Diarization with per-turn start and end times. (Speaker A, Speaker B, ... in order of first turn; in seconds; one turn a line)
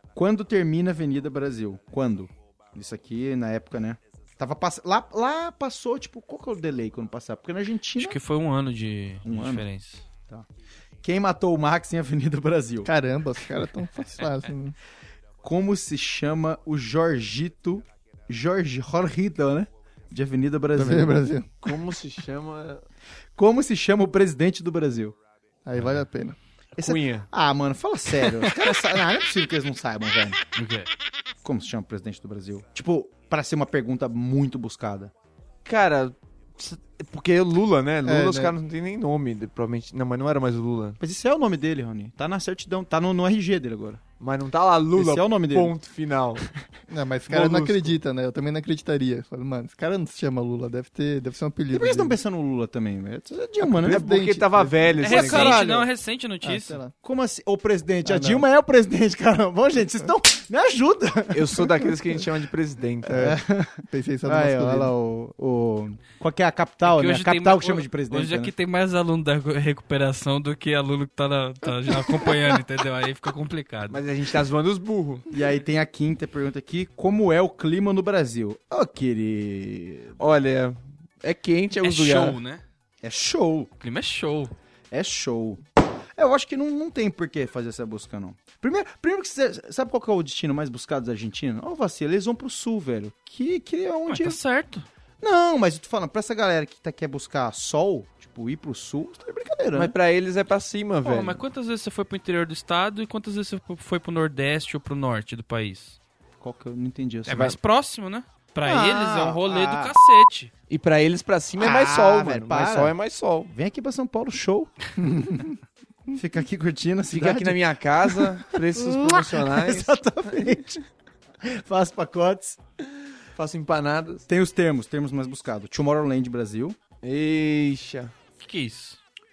Speaker A: 0.1-8.2
Speaker B: 8.0-10.0
Speaker A: 9.2-9.6
Speaker A: 11.0-12.9
Speaker C: 12.8-14.8
Speaker A: 15.4-21.2
Speaker C: 20.8-21.5
Speaker D: 21.6-22.8
Speaker A: 23.4-25.1
Speaker C: 25.6-26.4
Speaker A: 26.8-30.4
Speaker D: 26.8-27.3
Speaker B: 30.6-30.9
Speaker A: 31.4-35.1
Speaker D: 35.6-41.0
Speaker C: 38.0-38.5
Speaker A: 41.0-44.0
Speaker D: 44.2-46.4
Speaker A: 44.9-45.8
Speaker C: 46.9-52.1
Speaker D: 47.3-48.0
Speaker A: 51.7-54.1
Speaker C: 53.6-55.1
Speaker D: 53.8-55.6
Speaker A: 55.0-55.9
Speaker B: 55.0-56.8
Speaker C: 56.4-56.9
Speaker A: 57.0-61.6
Speaker C: 58.0-58.4
Speaker D: 61.3-63.3
Speaker C: 63.1-64.9
Speaker A: 63.2-68.5
Speaker B: 66.8-74.0
Speaker D: 73.9-75.2
Speaker A: 75.3-80.2
Speaker D: 80.2-82.4
Speaker B: 81.8-82.6
Speaker A: 83.0-83.7
Speaker B: 83.8-84.5
Speaker A: 84.9-85.6
Speaker A: 86.2-94.4
Speaker B: 94.1-94.9
Speaker A: 95.2-99.9
Speaker D: 99.7-101.4
Speaker B: 101.0-106.0
Speaker A: 106.4-107.6
Speaker B: 107.2-110.5
Speaker A: 108.6-109.9
Speaker D: 110.7-113.5
Speaker A: 111.6-113.0
Speaker A: 113.5-115.5
Speaker A: 116.1-120.8
Speaker D: 117.1-119.9
Speaker A: 121.4-122.6
Speaker D: 123.3-124.2
Speaker A: 124.3-126.8
Speaker D: 127.0-128.1
Speaker B: 128.4-129.0